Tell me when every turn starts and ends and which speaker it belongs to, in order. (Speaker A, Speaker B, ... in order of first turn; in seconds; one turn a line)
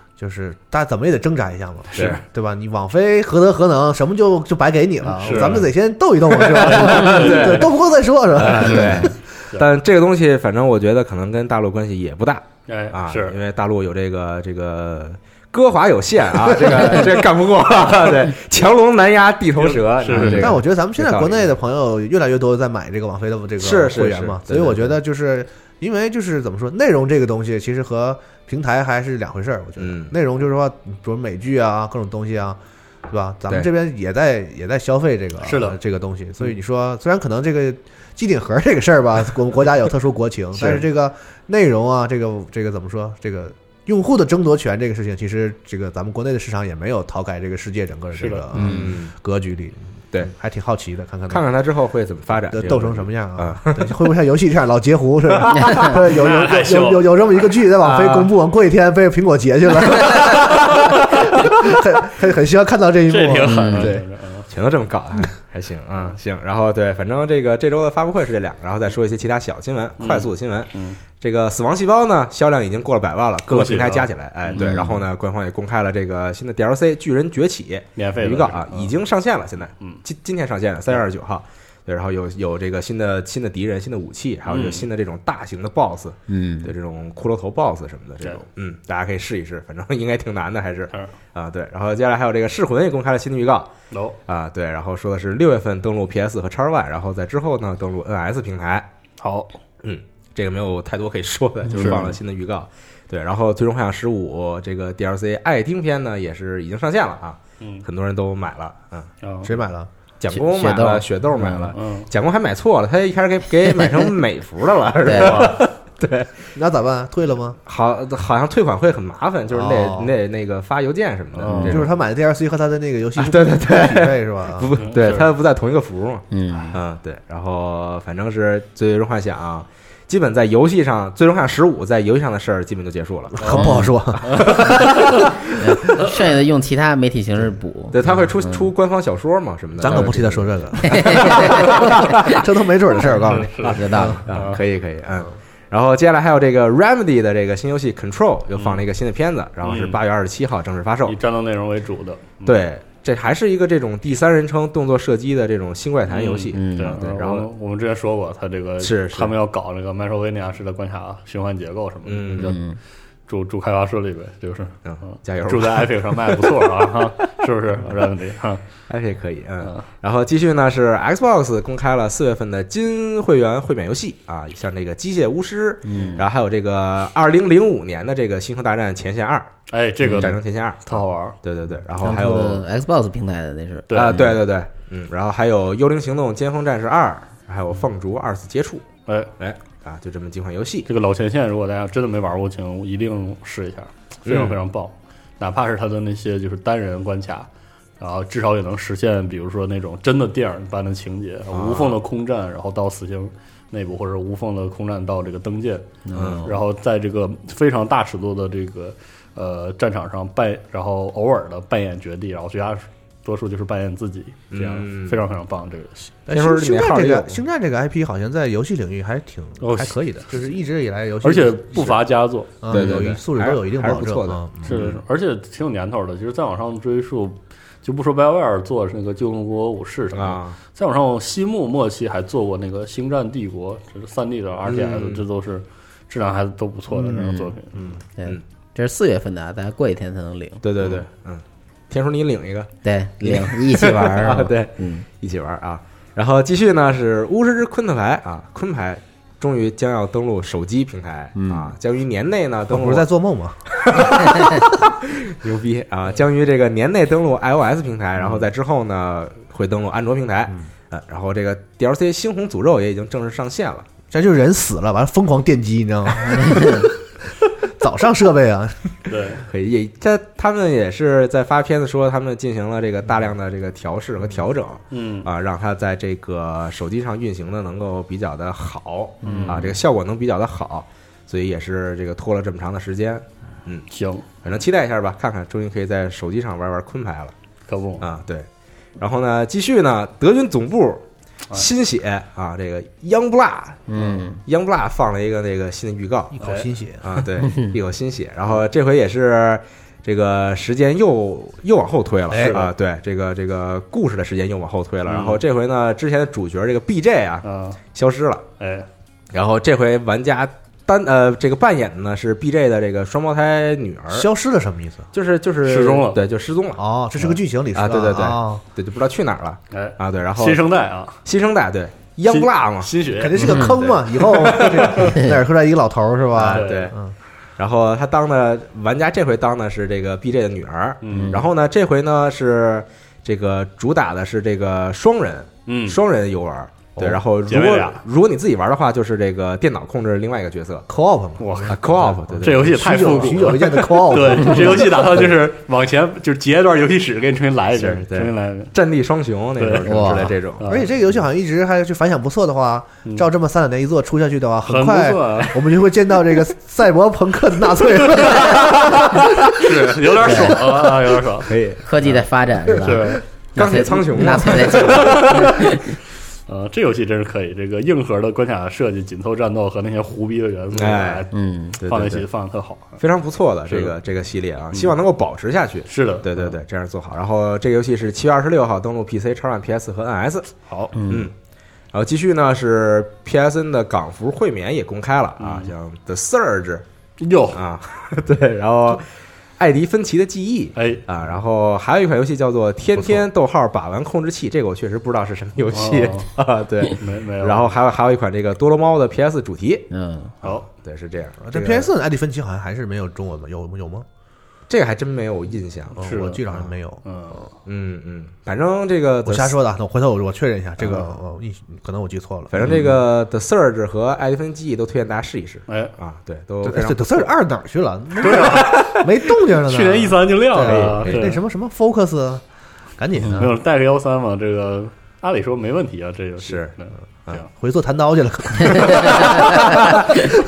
Speaker A: 0.2-9.1
Speaker B: 1.9-2.2
Speaker B: 5.1-5.6
Speaker C: 5.3-5.7
Speaker B: 6.5-7.7
Speaker C: 6.8-7.7
Speaker C: 8.3-21.5
Speaker B: 12.7-13.4
Speaker B: 19.6-20.5
Speaker A: 20.1-51.5
Speaker C: 23.6-25.0
Speaker C: 29.8-30.1
Speaker B: 35.4-35.8
Speaker B: 48.1-48.5
Speaker C: 48.5-49.1
Speaker D: 48.5-48.9
Speaker C: 51.3-53.9
Speaker A: 52.3-64.0
Speaker C: 55.3-55.8
Speaker B: 56.0-57.4
Speaker C: 57.8-58.3
Speaker B: 63.1-64.5
Speaker D: 63.4-63.9
Speaker C: 64.5-93.7
Speaker B: 70.0-71.0
Speaker B: 73.5-74.8
Speaker D: 74.5-75.0
Speaker B: 78.0-78.9
Speaker B: 84.5-84.8
Speaker D: 86.3-86.7
Speaker B: 93.9-94.2
Speaker C: 94.3-98.9
Speaker B: 99.2-99.6
Speaker C: 99.8-109.1
Speaker D: 101.7-102.1
Speaker B: 101.7-102.0
Speaker B: 107.6-107.8
Speaker B: 109.2-109.5
Speaker A: 109.4-109.9
Speaker C: 110.2-116.5
Speaker D: 110.3-111.7
Speaker B: 111.7-112.1
Speaker D: 113.7-114.1
Speaker D: 115.0-115.5
Speaker B: 115.1-115.6
Speaker A: 116.5-117.6
Speaker C: 117.7-121.9
Speaker A: 119.5-120.1
Speaker B: 121.3-121.7
Speaker D: 121.5-121.8
Speaker A: 121.6-124.7
Speaker C: 123.2-133.6
Speaker B: 124.8-125.3
Speaker D: 126.3-126.8
Speaker A: 133.4-134.7
Speaker D: 133.5-134.0
Speaker B: 134.2-135.0
Speaker C: 134.3-135.2
Speaker D: 135.5-138.7
Speaker C: 137.9-142.4
Speaker A: 139.8-144.2
Speaker D: 140.8-142.1
Speaker B: 143.3-144.6
Speaker C: 143.6-151.2
Speaker D: 143.7-144.3
Speaker B: 149.6-150.0
Speaker B: 151.1-152.6
Speaker C: 152.4-157.5
Speaker B: 156.1-162.6
Speaker D: 156.5-156.9
Speaker C: 158.8-159.3
Speaker C: 162.1-162.6
Speaker D: 162.4-162.8
Speaker B: 163.3-168.6
Speaker C: 164.8-166.7
Speaker C: 168.9-179.5
Speaker D: 175.8-176.2
Speaker B: 175.9-176.2
Speaker B: 179.7-181.4
Speaker D: 180.0-180.3
Speaker C: 180.1-182.7
Speaker D: 182.0-184.4
Speaker B: 183.9-184.2
Speaker C: 183.9-188.8
Speaker C: 189.4-190.9
Speaker B: 190.8-197.5
Speaker C: 194.2-194.6
Speaker B: 198.0-205.9
Speaker C: 201.5-202.0
Speaker D: 206.0-206.6
Speaker C: 206.1-206.5
Speaker B: 206.4-216.1
Speaker C: 214.5-215.2
Speaker A: 216.3-222.0
Speaker C: 216.3-217.4
Speaker B: 219.6-220.0
Speaker B: 221.2-222.6
Speaker A: 222.6-224.8
Speaker C: 222.7-225.0
Speaker B: 224.6-237.8
Speaker C: 230.1-230.6
Speaker C: 234.6-235.2
Speaker D: 237.0-237.6
Speaker D: 238.2-240.6
Speaker C: 240.6-253.1
Speaker D: 242.8-245.0
Speaker D: 251.3-251.7
Speaker A: 252.7-254.2
Speaker C: 253.7-263.9
Speaker A: 264.1-266.9
Speaker D: 266.3-266.9
Speaker A: 267.6-269.1
Speaker B: 269.1-269.4
Speaker C: 269.4-283.9
Speaker B: 274.9-275.3
Speaker B: 279.2-279.7
Speaker D: 279.2-279.7
Speaker B: 283.9-284.2
Speaker C: 284.4-287.3
Speaker B: 287.7-288.1
Speaker C: 288.0-288.5
Speaker C: 289.0-296.4
Speaker D: 293.9-294.4
Speaker A: 296.3-297.2
Speaker C: 297.0-308.4
Speaker A: 302.3-302.6
Speaker B: 302.3-302.7
Speaker B: 305.1-305.4
Speaker B: 307.4-307.8
Speaker B: 308.6-308.9
Speaker C: 309.3-314.3
Speaker A: 314.1-315.1
Speaker C: 315.1-316.8
Speaker B: 315.6-316.2
Speaker A: 316.8-318.6
Speaker C: 317.7-320.6
Speaker B: 319.7-321.2
Speaker C: 321.2-322.9
Speaker B: 322.3-323.6
Speaker A: 323.2-327.1
Speaker D: 323.4-323.7
Speaker C: 323.4-325.1
Speaker C: 326.4-326.9
Speaker B: 326.4-326.9
Speaker C: 327.6-340.9
Speaker B: 331.0-331.4
Speaker D: 331.1-331.4
Speaker B: 335.7-336.0
Speaker B: 337.4-338.0
Speaker A: 340.9-345.3
Speaker B: 341.4-341.8
Speaker C: 341.7-343.1
Speaker B: 342.4-348.7
Speaker C: 347.7-350.6
Speaker B: 349.6-350.9
Speaker D: 349.8-350.3
Speaker A: 350.6-359.4
Speaker B: 354.6-355.7
Speaker B: 358.2-358.6
Speaker C: 358.6-359.2
Speaker B: 359.5-361.5
Speaker D: 360.2-360.6
Speaker C: 361.4-361.9
Speaker D: 361.8-366.0
Speaker B: 362.8-363.2
Speaker C: 363.5-365.7
Speaker B: 364.9-365.6
Speaker B: 366.5-371.3
Speaker C: 370.7-371.2
Speaker D: 371.3-371.8
Speaker C: 371.8-372.2
Speaker B: 371.8-373.0
Speaker C: 373.0-380.5
Speaker B: 373.7-373.9
Speaker B: 375.9-376.6
Speaker D: 380.9-381.3
Speaker C: 381.1-381.3
Speaker C: 381.9-386.8
Speaker B: 385.4-385.7
Speaker B: 387.2-387.6
Speaker C: 387.5-389.1
Speaker C: 389.6-399.9
Speaker B: 390.7-391.0
Speaker B: 395.7-396.3
Speaker B: 397.0-397.7
Speaker D: 399.9-400.3
Speaker C: 400.4-401.9
Speaker A: 401.4-404.1
Speaker C: 404.7-406.1
Speaker A: 405.9-407.0
Speaker B: 406.0-406.4
Speaker B: 407.0-407.5
Speaker C: 407.6-409.6
Speaker A: 409.2-412.6
Speaker C: 412.5-417.3
Speaker B: 415.7-415.9
Speaker A: 416.6-422.4
Speaker B: 418.2-421.4
Speaker C: 418.3-418.9
Speaker C: 420.6-421.2
Speaker A: 423.0-423.5
Speaker B: 423.3-427.5
Speaker C: 426.4-426.7
Speaker A: 427.5-430.2
Speaker C: 428.7-429.9